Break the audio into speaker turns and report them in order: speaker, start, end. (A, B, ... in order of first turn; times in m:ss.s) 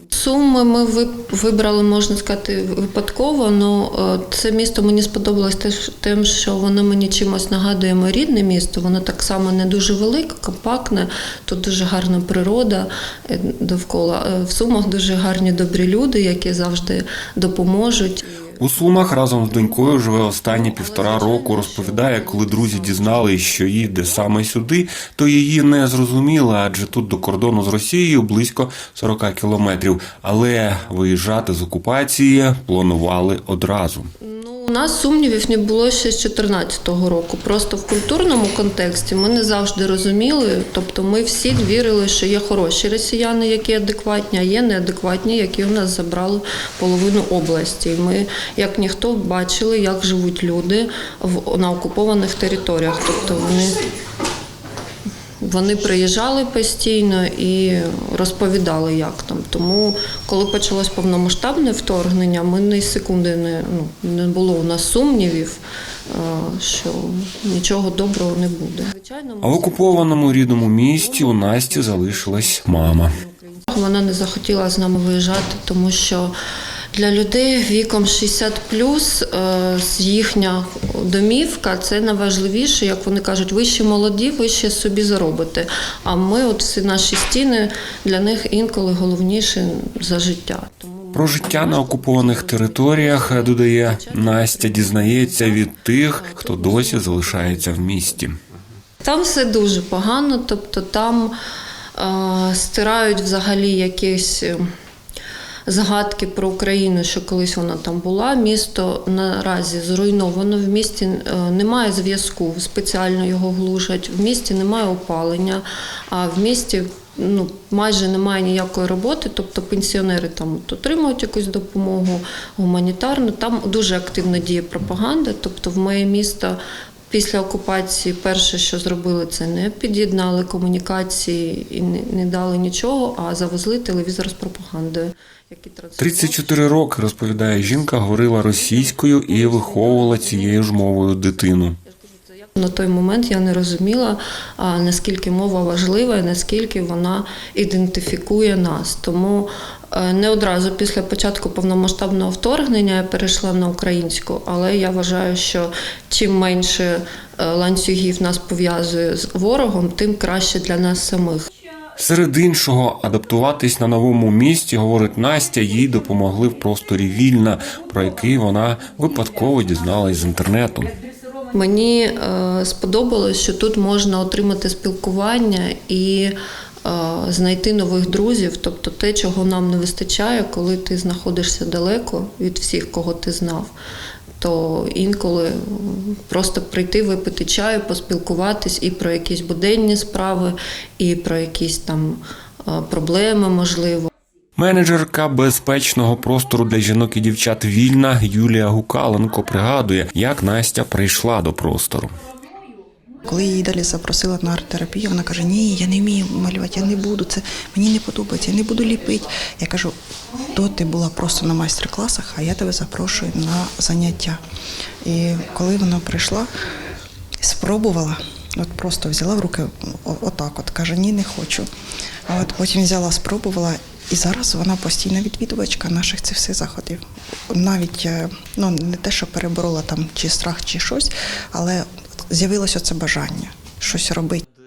0:00.1-0:18.7 A
0:18.6-0:34.1 B
0:19.5-0:19.8 A
0:20.4-0:24.0 A
0:34.2-0:53.8 A
0:55.4-1:16.3 A
1:09.4-1:13.2 B
1:16.9-1:38.2 A
1:31.1-1:38.4 B
1:39.0-1:41.4 A
1:42.0-1:44.7 A
1:45.7-2:21.3 A
2:16.0-2:21.8 B
2:21.8-2:41.5 A
2:42.0-2:50.9 B
2:51.5-3:03.7 A
3:04.4-3:14.1 A
3:14.6-3:22.2 B
3:23.3-3:29.9 C
3:30.5-3:34.4 C
3:35.0-3:36.5 C
3:37.4-3:41.7 C
3:42.3-3:54.4 C